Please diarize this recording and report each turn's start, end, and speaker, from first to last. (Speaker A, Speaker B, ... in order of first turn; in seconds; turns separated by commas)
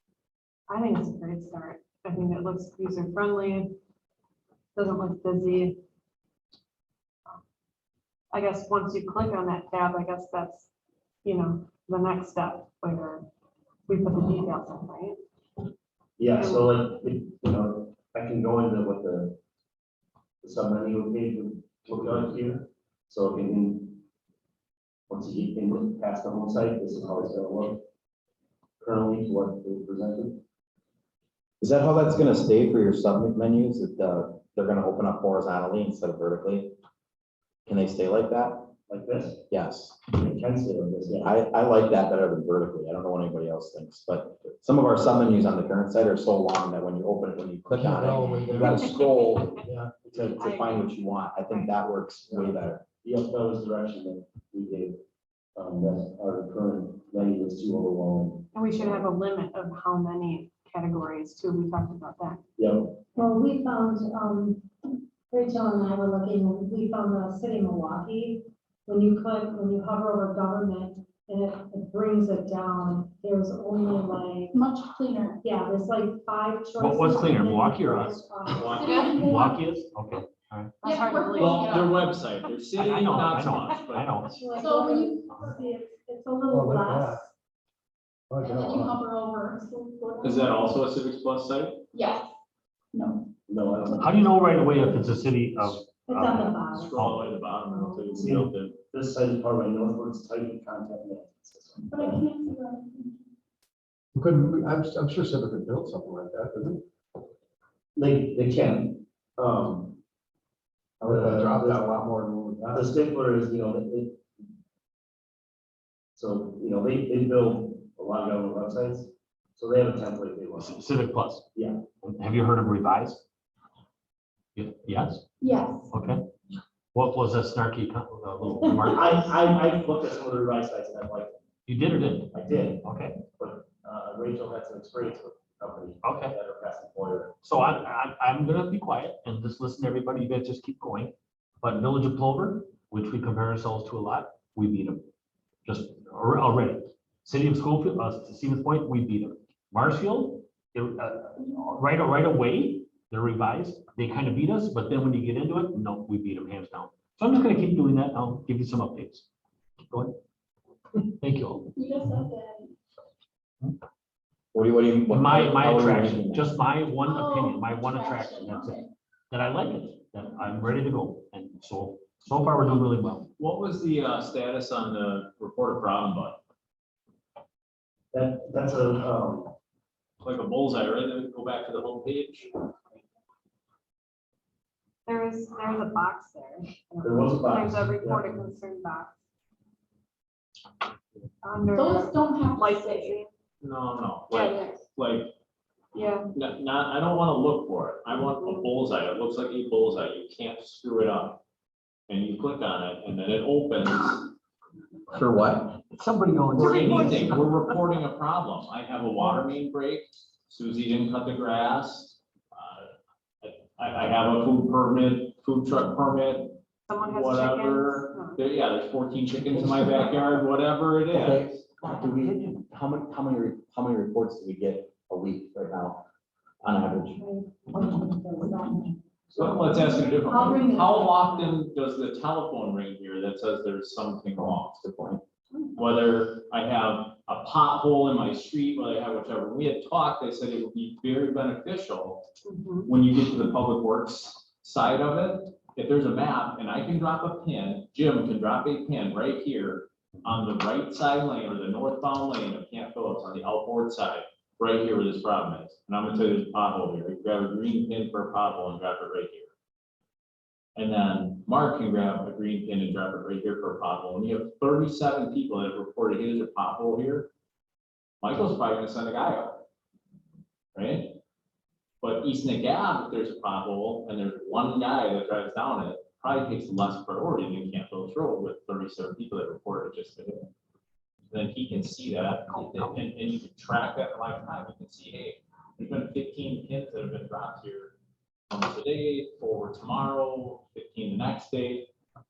Speaker A: 0.7-3.8, Speaker A: 4.7-5.8, Speaker A: 8.3-10.7, Speaker A: 11.2-13.2, Speaker A: 13.9-15.2, Speaker B: 16.2-19.4, Speaker A: 16.3-16.7, Speaker B: 20.4-24.0, Speaker B: 25.1-27.8, Speaker B: 28.8-30.4, Speaker C: 31.6-36.7, Speaker C: 37.6-38.7, Speaker B: 38.9-39.4, Speaker C: 39.5-40.0, Speaker B: 40.1-41.3, Speaker C: 41.2-52.8, Speaker D: 47.7-48.9, Speaker A: 48.6-49.7, Speaker D: 49.6-49.9, Speaker B: 50.1-50.3, Speaker A: 50.4-50.9, Speaker A: 51.5-51.7, Speaker B: 52.3-55.0, Speaker B: 55.5-59.1, Speaker A: 58.5-62.4, Speaker B: 62.6-63.0, Speaker E: 63.1-64.7, Speaker E: 65.3-74.5, Speaker F: 74.5-75.4, Speaker E: 75.4-79.2, Speaker G: 76.8-78.2, Speaker H: 78.6-79.1, Speaker F: 78.6-79.6, Speaker A: 78.9-79.1, Speaker G: 78.9-80.7, Speaker A: 80.8-81.7, Speaker F: 80.8-82.0, Speaker H: 81.4-84.1, Speaker G: 82.8-84.4, Speaker E: 84.3-87.3, Speaker F: 84.5-85.6, Speaker D: 86.5-87.2, Speaker D: 88.3-89.0, Speaker F: 88.4-90.7, Speaker H: 90.2-91.8, Speaker F: 91.9-92.3, Speaker F: 92.9-93.3, Speaker B: 93.5-94.3, Speaker G: 94.0-97.2, Speaker E: 94.7-95.0, Speaker E: 96.1-98.2, Speaker H: 96.7-98.8, Speaker B: 98.1-102.3, Speaker F: 101.9-103.2, Speaker D: 104.1-106.8, Speaker B: 108.0-110.0, Speaker D: 111.0-113.0, Speaker B: 111.1-111.8, Speaker B: 112.7-114.2, Speaker B: 116.2-120.8, Speaker G: 120.6-121.5, Speaker B: 121.5-121.8, Speaker G: 122.0-123.2, Speaker G: 124.5-125.2, Speaker F: 125.4-125.9, Speaker G: 125.9-126.2, Speaker G: 126.9-129.2, Speaker B: 128.8-131.4, Speaker G: 131.7-133.2, Speaker B: 132.3-137.3, Speaker G: 136.0-136.3, Speaker G: 137.4-145.0, Speaker G: 145.6-159.2, Speaker G: 159.9-160.2, Speaker G: 161.2-161.7, Speaker F: 161.7-162.7, Speaker C: 164.5-166.5, Speaker G: 165.1-173.3, Speaker F: 167.0-168.9, Speaker H: 173.4-176.4, Speaker B: 178.1-179.5, Speaker H: 180.2-182.6, Speaker A: 185.1-189.2, Speaker B: 187.0-188.2, Speaker A: 191.4-193.3, Speaker F: 191.7-193.2, Speaker H: 193.6-195.3, Speaker A: 194.3-194.8, Speaker A: 195.9-196.3, Speaker H: 196.3-201.4, Speaker A: 198.2-198.7, Speaker H: 202.1-204.3, Speaker C: 205.1-205.8, Speaker G: 205.9-207.5, Speaker H: 206.6-221.6, Speaker A: 216.9-218.4, Speaker C: 219.5-219.9, Speaker C: 221.1-226.0, Speaker C: 226.6-227.2, Speaker E: 227.2-231.6, Speaker H: 229.3-234.8, Speaker C: 234.7-235.2, Speaker H: 235.7-242.2, Speaker A: 242.4-242.9, Speaker H: 242.9-259.5, Speaker H: 260.8-267.3, Speaker H: 268.2-269.6, Speaker H: 270.7-271.1, Speaker H: 272.0-280.5, Speaker H: 281.3-287.9, Speaker G: 282.5-283.0, Speaker H: 288.5-291.9